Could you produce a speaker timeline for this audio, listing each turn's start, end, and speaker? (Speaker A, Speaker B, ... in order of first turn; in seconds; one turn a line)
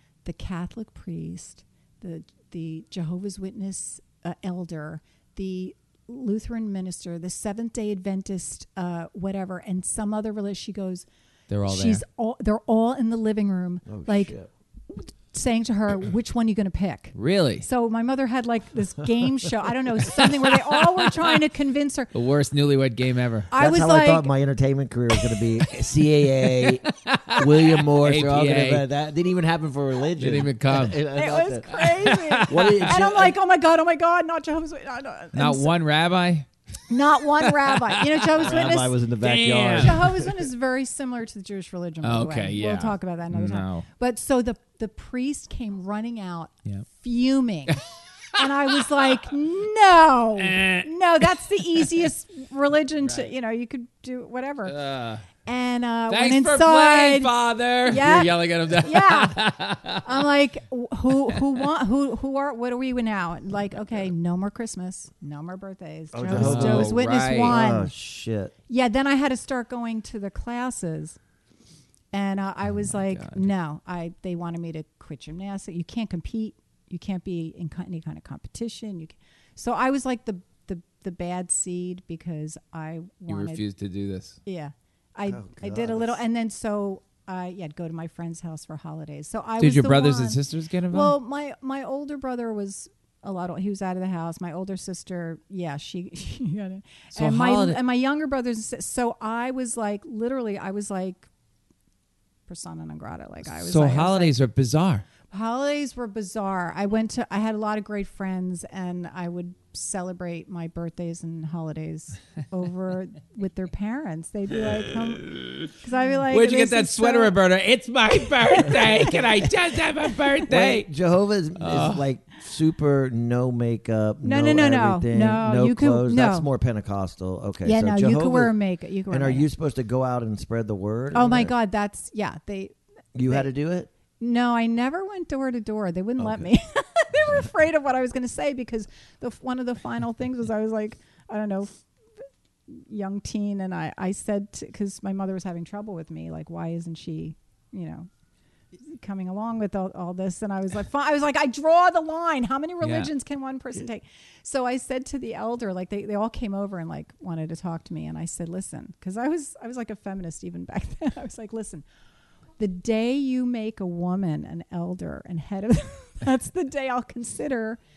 Speaker A: 0.2-11.1
Speaker B: 11.5-12.0
Speaker A: 11.7-14.3
Speaker C: 13.9-14.5
Speaker A: 14.9-22.1
Speaker B: 17.1-17.7
Speaker B: 20.1-21.4
Speaker B: 22.1-23.5
Speaker A: 23.5-24.3
Speaker C: 23.6-31.8
Speaker B: 26.5-28.9
Speaker B: 30.2-31.0
Speaker A: 31.1-35.7
Speaker B: 31.7-33.0
Speaker C: 32.5-33.4
Speaker B: 35.3-36.5
Speaker A: 36.9-39.0
Speaker B: 37.5-38.6
Speaker C: 38.4-40.5
Speaker B: 39.2-40.0
Speaker A: 39.8-47.8
Speaker B: 42.0-43.9
Speaker A: 48.4-54.8
Speaker B: 50.4-52.1
Speaker B: 53.0-53.3
Speaker B: 54.7-55.3
Speaker A: 55.4-59.4
Speaker B: 56.1-60.2
Speaker A: 60.0-67.9
Speaker B: 61.1-61.6
Speaker C: 66.1-68.5
Speaker B: 66.3-67.6
Speaker A: 68.7-71.2
Speaker A: 72.1-83.6
Speaker B: 72.7-73.5
Speaker B: 83.3-84.4
Speaker A: 84.5-90.4
Speaker C: 85.2-86.2
Speaker B: 89.6-91.2
Speaker A: 90.9-101.3
Speaker B: 97.2-97.8
Speaker A: 102.5-104.3
Speaker B: 103.5-105.0
Speaker A: 105.3-117.3
Speaker B: 115.2-115.7
Speaker B: 116.3-120.9
Speaker C: 120.5-128.6
Speaker B: 121.6-122.0
Speaker A: 124.2-126.5
Speaker A: 127.6-129.5
Speaker C: 129.1-131.6
Speaker A: 131.1-132.8
Speaker C: 133.2-133.9
Speaker A: 134.2-141.7
Speaker C: 136.2-136.5
Speaker A: 142.7-148.1
Speaker A: 148.8-161.8
Speaker B: 152.8-153.1
Speaker A: 162.6-167.8